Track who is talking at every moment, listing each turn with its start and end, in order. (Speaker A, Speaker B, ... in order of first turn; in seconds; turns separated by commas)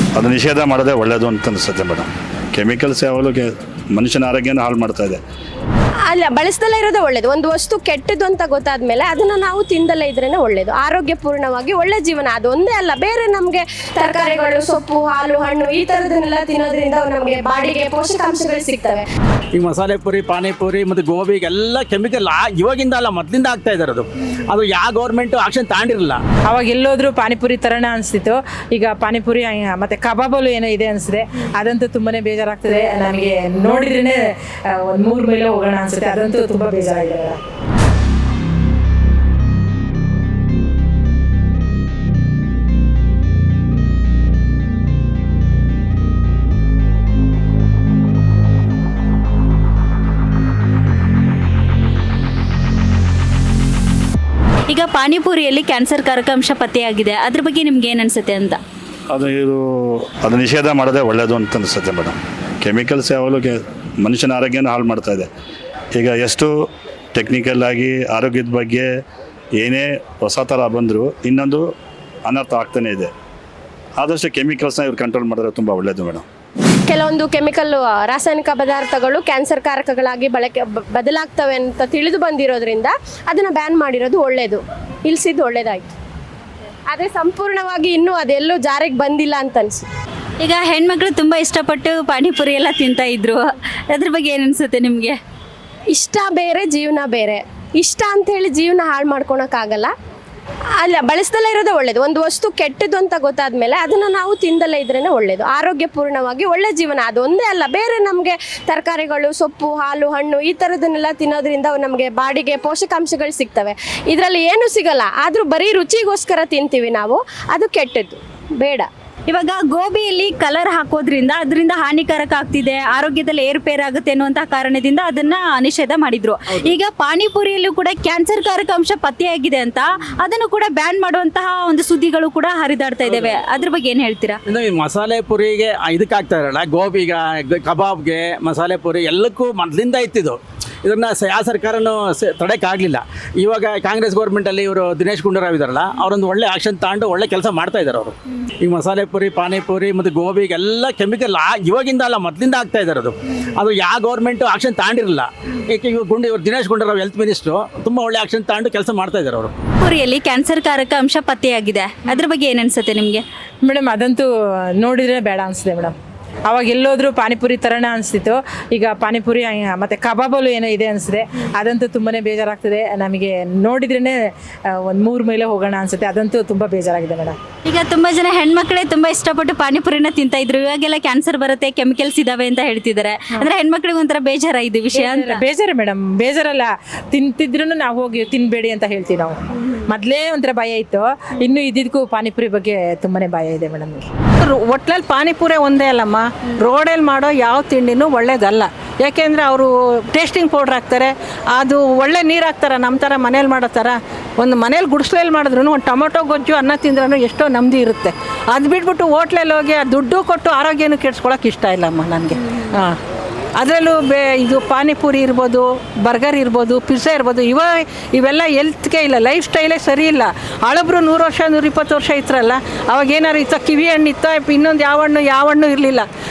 Speaker A: 0.1-5.2, Speaker B: 6.1-19.1, Speaker C: 19.5-26.2, Speaker D: 26.5-34.2, Speaker D: 34.9-37.4, Speaker E: 54.7-58.6, Speaker A: 59.1-59.6, Speaker A: 60.2-65.3, Speaker A: 65.9-66.5, Speaker A: 67.1-68.9, Speaker A: 69.6-71.7, Speaker A: 72.3-73.1, Speaker A: 74.0-76.2, Speaker B: 76.9-85.9, Speaker B: 86.9-89.8, Speaker E: 90.4-95.2, Speaker B: 95.9-99.9, Speaker B: 100.8-118.9, Speaker E: 119.3-134.4, Speaker C: 133.1-133.4, Speaker C: 134.5-159.5, Speaker E: 159.8-163.2, Speaker D: 163.7-164.3, Speaker D: 164.8-165.9, Speaker D: 166.5-174.2, Speaker D: 174.8-177.3, Speaker E: 177.7-185.4, Speaker D: 184.9-189.4, Speaker D: 189.9-194.1, Speaker F: 194.4-213.0, Speaker F: 213.6-226.1